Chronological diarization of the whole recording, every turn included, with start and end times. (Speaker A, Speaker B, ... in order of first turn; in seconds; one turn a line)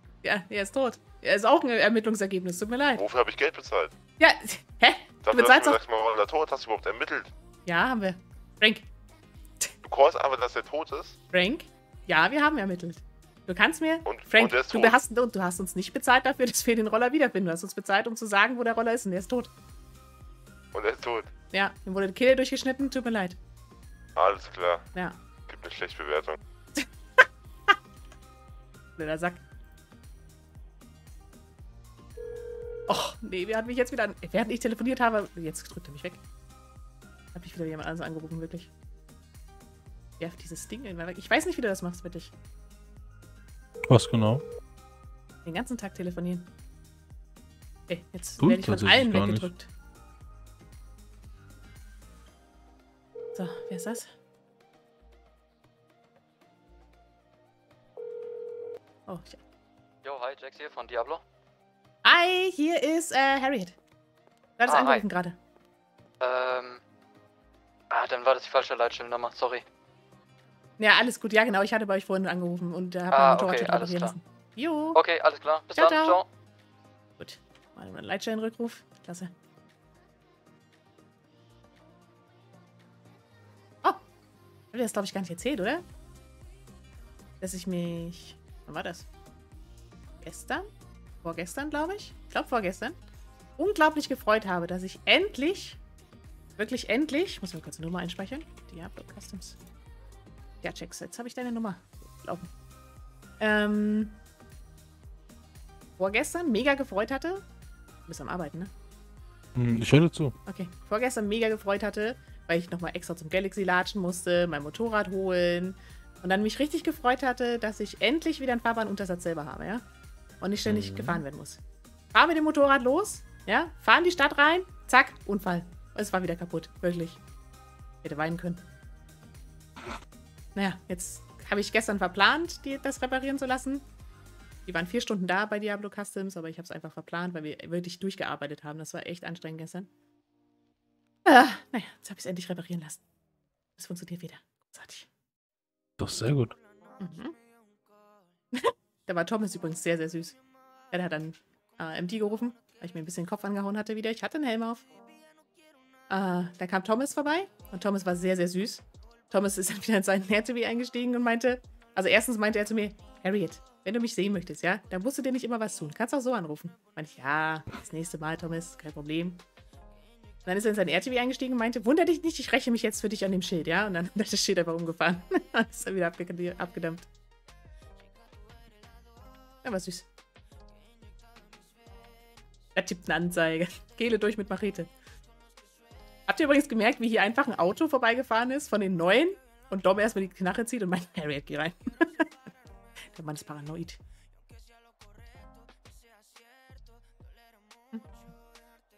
Speaker A: 0.2-3.0
Speaker B: 2.9-3.9
Speaker A: 4.2-5.8
Speaker B: 5.2-7.3
Speaker A: 7.7-8.9
Speaker B: 9.8-11.2
Speaker A: 11.3-19.5
Speaker B: 14.1-15.0
Speaker B: 20.7-21.3
Speaker A: 21.5-23.4
Speaker B: 24.1-24.9
Speaker B: 25.5-26.4
Speaker A: 26.8-27.7
Speaker A: 29.0-29.4
Speaker A: 32.9-36.2
Speaker A: 37.3-38.7
Speaker A: 40.2-42.3
Speaker C: 43.9-44.4
Speaker A: 45.4-46.5
Speaker A: 47.9-49.7
Speaker C: 48.4-49.5
Speaker A: 53.3-54.1
Speaker A: 59.1-59.4
Speaker D: 60.0-61.2
Speaker A: 62.0-63.8
Speaker A: 64.6-65.4
Speaker D: 64.7-65.0
Speaker D: 66.2-66.8
Speaker D: 67.9-69.6
Speaker A: 70.8-75.0
Speaker D: 73.1-74.1
Speaker D: 74.9-76.2
Speaker A: 75.7-76.2
Speaker A: 77.2-79.3
Speaker A: 84.7-85.8
Speaker A: 87.4-89.1
Speaker A: 90.2-90.7
Speaker A: 91.2-93.0
Speaker A: 93.6-95.8
Speaker A: 96.6-99.6
Speaker A: 100.6-102.5
Speaker A: 103.4-104.2
Speaker A: 106.0-107.4
Speaker A: 108.1-108.7
Speaker C: 109.5-110.3
Speaker A: 110.5-119.8
Speaker A: 120.4-121.6
Speaker C: 120.7-121.2
Speaker A: 122.1-127.2
Speaker A: 128.0-128.6
Speaker A: 130.5-133.8
Speaker A: 134.7-139.9
Speaker A: 141.2-143.0
Speaker A: 143.8-145.1
Speaker C: 146.0-146.5
Speaker A: 147.0-147.4
Speaker A: 148.5-150.4
Speaker A: 150.9-154.8
Speaker A: 156.1-169.4
Speaker A: 170.4-177.1
Speaker A: 179.6-180.1
Speaker A: 182.7-184.9
Speaker A: 186.3-192.3
Speaker A: 193.1-194.0